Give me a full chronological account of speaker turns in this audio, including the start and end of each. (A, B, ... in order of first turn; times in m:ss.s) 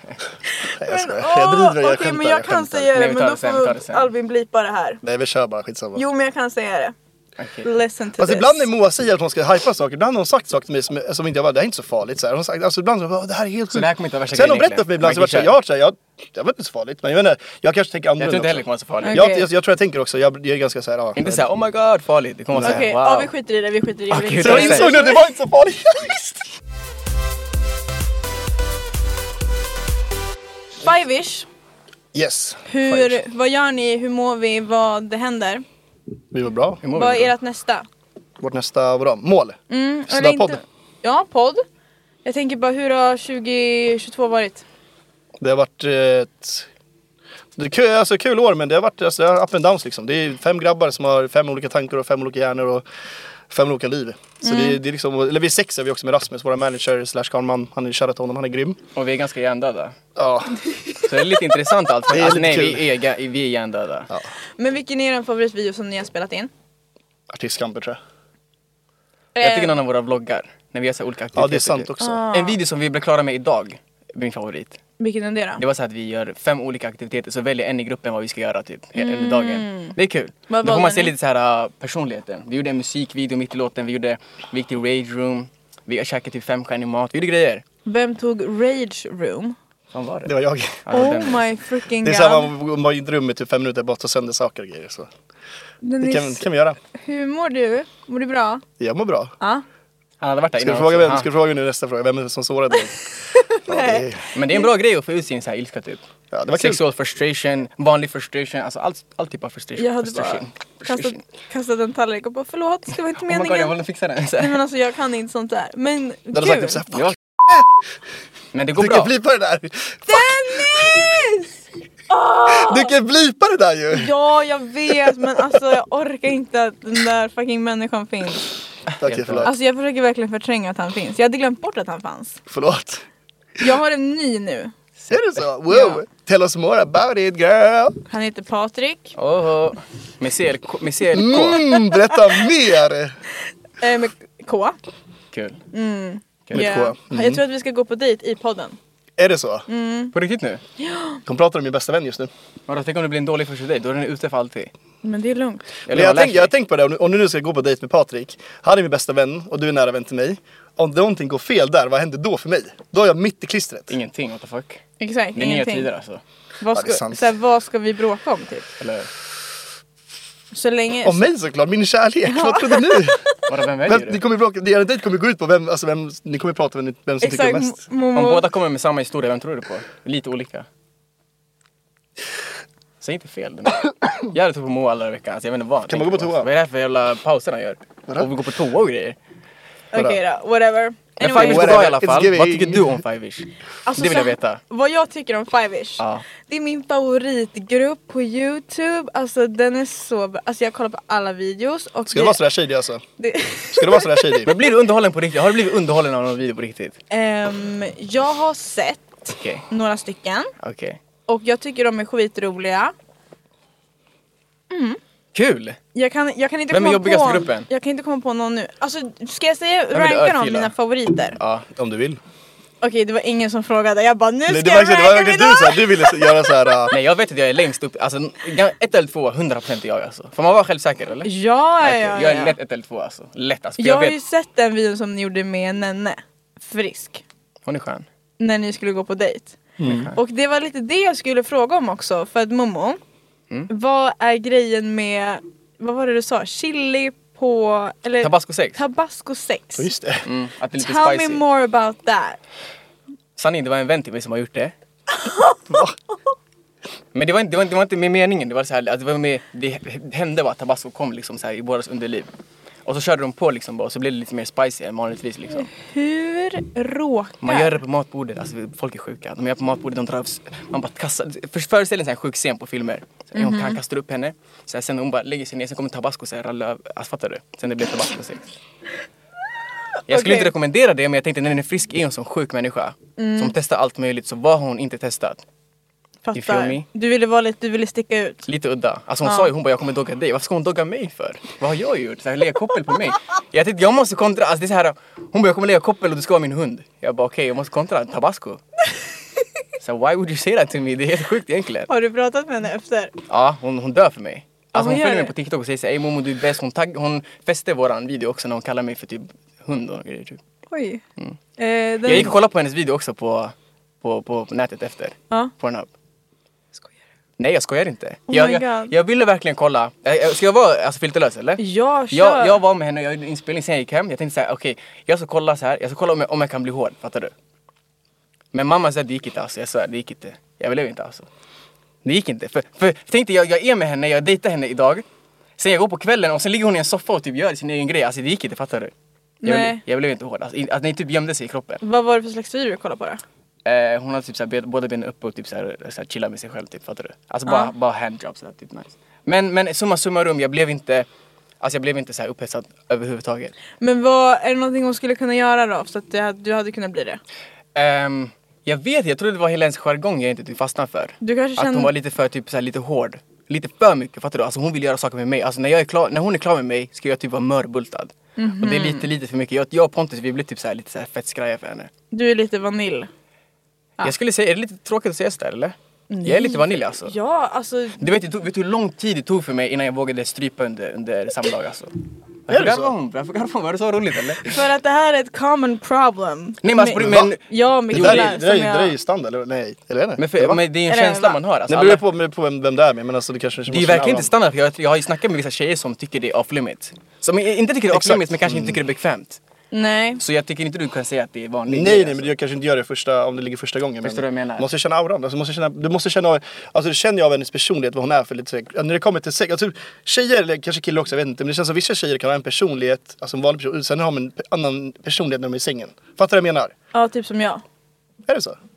0:00.8-0:02.9 A
0:00.8-0:05.0 B
0:02.9-0:04.1 C
0:05.0-0:06.0 A
0:06.0-0:06.9 B
0:07.4-0:07.6 C
0:07.6-0:08.6 B
0:08.2-0:21.5 A
0:13.7-0:15.5 C
0:18.2-0:19.2 C
0:19.0-0:19.5 B
0:21.2-0:23.3 C
0:22.5-0:22.8 A
0:22.6-0:25.2 B
0:24.1-0:24.9 C
0:24.4-0:26.5 A
0:30.8-0:31.5 B
0:32.1-0:33.2 A
0:32.7-0:35.6 B
0:36.3-0:36.8 A
0:36.8-0:37.3 C
0:36.9-0:37.9 B
0:38.4-0:40.6 A
0:39.7-0:41.6 B
0:42.2-0:44.6 B
0:45.4-0:46.7 A
0:47.6-0:52.8 A
0:53.5-0:58.8 A
0:54.4-0:54.8 B
0:59.0-1:00.0 C
1:00.2-1:00.6 A
1:01.0-1:04.1 C
1:02.1-1:02.8 A
1:04.6-1:06.5 B
1:07.3-1:08.0 A
1:09.4-1:09.8 B
1:09.4-1:14.8 C
1:11.4-1:12.2 A
1:12.0-1:12.6 B
1:15.0-1:15.6 B
1:15.6-1:27.6 C
1:19.0-1:20.0 B
1:20.5-1:21.1 B
1:27.8-1:29.6 B
1:29.9-1:30.3 C
1:30.2-1:30.9 A
1:30.8-1:31.4 C
1:30.9-1:32.5 B
1:32.0-1:35.1 A
1:35.8-1:38.6 B
1:36.0-1:36.8 A
1:38.8-1:39.3 A
1:40.2-1:41.3 C
1:40.6-1:43.0 A
1:43.3-1:44.7 B
1:43.7-1:44.2 A
1:44.3-1:46.0 C
1:46.3-1:46.8 A
1:46.5-1:51.2 C
1:49.8-1:53.7 B
1:53.2-1:54.6 C
1:54.4-1:56.8 B
1:56.3-1:57.7 A
1:58.5-1:59.1 C
1:58.8-2:00.8 A
2:00.1-2:01.5 B
2:02.1-2:02.9 B
2:02.5-2:04.1 A
2:03.9-2:08.5 B
2:08.9-2:09.5 C
2:09.0-2:09.5 A
2:09.4-2:12.4 B
2:12.5-2:13.0 A
2:13.6-2:14.7 B
2:15.1-2:18.0 A
2:15.7-2:16.0 B
2:18.1-2:19.2 B
2:19.2-2:21.6 C
2:21.1-2:23.2 A
2:21.4-2:22.1 B
2:23.8-2:24.8 B
2:25.3-2:25.6 C
2:25.7-2:28.8 B
2:26.5-2:26.8 C
2:26.5-2:27.4 A
2:29.2-2:29.7 A
2:29.7-2:30.1 B
2:30.1-2:30.6 C
2:30.8-2:31.2 B
2:31.2-2:32.3 A
2:32.7-2:34.7 C
2:35.0-2:35.7 B
2:35.9-2:36.5 C
2:35.9-2:43.9 A
2:43.9-2:44.8 C
2:45.0-2:45.9 B
2:45.3-2:46.2 C
2:46.6-2:48.7 B
2:46.7-2:47.3 A
2:48.8-2:49.1 C
2:50.5-2:51.3 B
2:51.0-2:53.3 A
2:52.3-2:53.0 B
2:53.5-2:54.2 C
2:53.8-2:57.8 A
2:57.2-2:58.4 B
2:58.2-3:00.7 C
3:03.0-3:09.2 C
3:05.9-3:06.5 A
3:09.9-3:11.8 B
3:11.2-3:13.0 A
3:11.2-3:14.6 C
3:13.8-3:22.4 B
3:16.0-3:16.2 C
3:22.1-3:23.0 A
3:23.2-3:24.4 B
3:23.7-3:24.5 A
3:24.5-3:27.0 C
3:27.1-3:30.5 B
3:29.3-3:29.6 C
3:30.6-3:31.0 C
3:31.3-3:32.9 B
3:34.7-3:35.0 B
3:35.3-3:35.8 C
3:35.9-3:41.4 B
3:36.7-3:37.7 C
3:39.9-3:40.7 C
3:41.4-3:41.7 C
3:41.8-3:42.2 A
3:42.8-3:46.7 B
3:44.5-3:47.0 A
3:46.9-3:51.3 C
3:51.2-3:52.6 B
3:51.8-3:54.2 C
3:53.8-3:57.2 B
3:57.6-3:58.0 C
3:58.4-3:59.6 B
3:59.8-4:00.1 A
3:59.8-4:00.2 C
4:00.1-4:03.0 B
4:03.7-4:09.9 B
4:08.2-4:08.8 C
4:09.8-4:10.2 A
4:10.2-4:11.4 C
4:10.8-4:12.4 B
4:13.4-4:14.7 C
4:15.2-4:15.8 B
4:15.7-4:16.0 A
4:17.1-4:22.3 C
4:22.8-4:25.7 C
4:25.5-4:27.7 B
4:27.4-4:38.4 C
4:33.3-4:33.8 B
4:40.1-4:45.4 C
4:40.1-4:40.5 B
4:43.2-4:43.5 B
4:46.2-4:48.4 B
4:46.3-4:46.8 C
4:48.5-4:58.6 C
4:49.2-4:49.5 B
4:59.8-5:01.9 C
5:01.9-5:03.1 B
5:03.3-5:10.4 C
5:04.8-5:05.3 B
5:10.7-5:11.0 B
5:11.6-5:12.3 B
5:12.0-5:15.9 C
5:17.4-5:27.3 C
5:18.3-5:18.9 B
5:21.6-5:22.6 B
5:28.5-5:31.2 C
5:32.0-5:35.0 C
5:35.6-5:38.9 C
5:39.4-5:39.8 B
5:39.4-5:41.8 C
5:41.8-5:43.2 B
5:43.6-5:51.0 C
5:47.5-5:47.7 B
5:51.6-5:53.5 C
5:53.8-5:57.2 B
5:57.8-6:11.9 C
6:01.2-6:01.9 B
6:08.4-6:09.1 B
6:12.1-6:13.1 B
6:14.0-6:17.1 C
6:16.1-6:18.1 B
6:18.0-6:21.9 C
6:22.5-6:24.5 C
6:22.5-6:23.0 A
6:24.4-6:29.0 B
6:26.6-6:28.4 C
6:27.0-6:27.3 A
6:27.9-6:30.6 A
6:30.2-6:32.0 C
6:30.9-6:31.4 B
6:31.7-6:34.3 A
6:33.7-6:39.4 C
6:37.9-6:38.8 A
6:39.7-6:40.2 B
6:40.2-6:42.3 C
6:41.7-6:56.7 A
6:44.0-6:44.7 C
6:56.9-6:57.6 B
6:58.2-6:58.6 A